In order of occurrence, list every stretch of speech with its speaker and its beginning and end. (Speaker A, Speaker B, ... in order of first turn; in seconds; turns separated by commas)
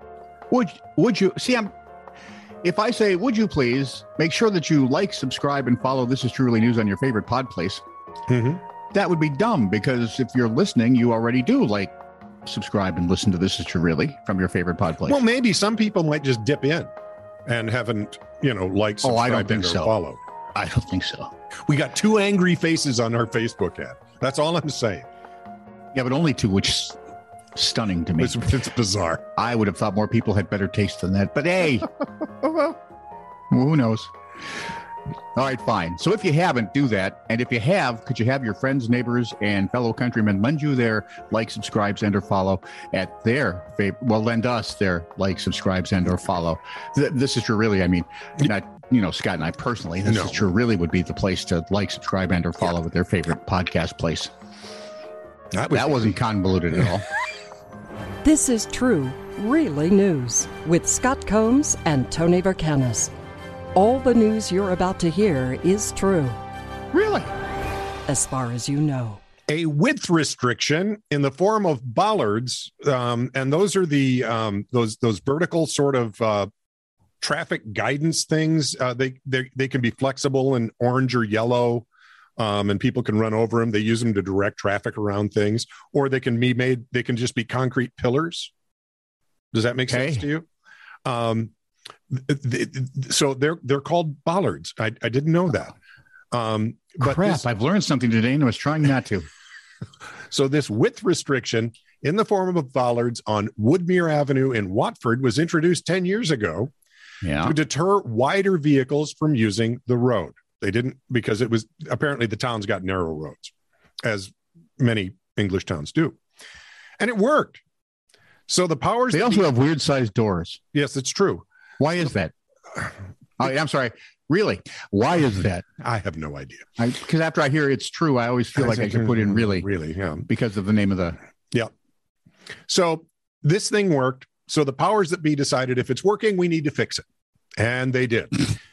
Speaker A: 0.5-1.7, Speaker A: 2.6-7.8, Speaker B: 8.3-8.6, Speaker A: 8.9-11.9, Speaker A: 12.4-15.2, Speaker B: 15.1-16.9, Speaker B: 17.5-20.2, Speaker A: 19.0-19.9, Speaker A: 20.6-21.3, Speaker B: 21.7-25.1, Speaker A: 25.9-27.0, Speaker A: 27.6-28.5, Speaker B: 28.2-29.2, Speaker A: 29.4-31.9, Speaker A: 33.5-34.1, Speaker A: 35.4-54.3, Speaker B: 50.1-50.4, Speaker B: 55.5-56.2, Speaker A: 55.7-57.1, Speaker C: 58.2-63.1, Speaker C: 63.8-66.4, Speaker A: 66.9-67.3, Speaker C: 68.1-69.2, Speaker B: 69.5-76.5, Speaker B: 77.2-81.9, Speaker B: 82.4-88.5, Speaker B: 89.5-90.5, Speaker A: 89.9-90.3, Speaker B: 91.0-91.5, Speaker B: 92.1-95.8, Speaker B: 96.3-97.4, Speaker A: 97.0-99.3, Speaker B: 100.3-106.7, Speaker A: 107.2-107.6, Speaker B: 107.4-113.5, Speaker B: 114.0-116.2, Speaker B: 117.0-117.6, Speaker B: 118.5-119.5, Speaker A: 119.1-120.6, Speaker B: 120.7-121.5, Speaker A: 121.8-122.3, Speaker A: 123.4-125.7, Speaker B: 125.8-126.7, Speaker A: 126.8-129.7, Speaker B: 128.6-130.2, Speaker A: 130.2-131.2, Speaker B: 132.7-137.1, Speaker B: 137.6-138.5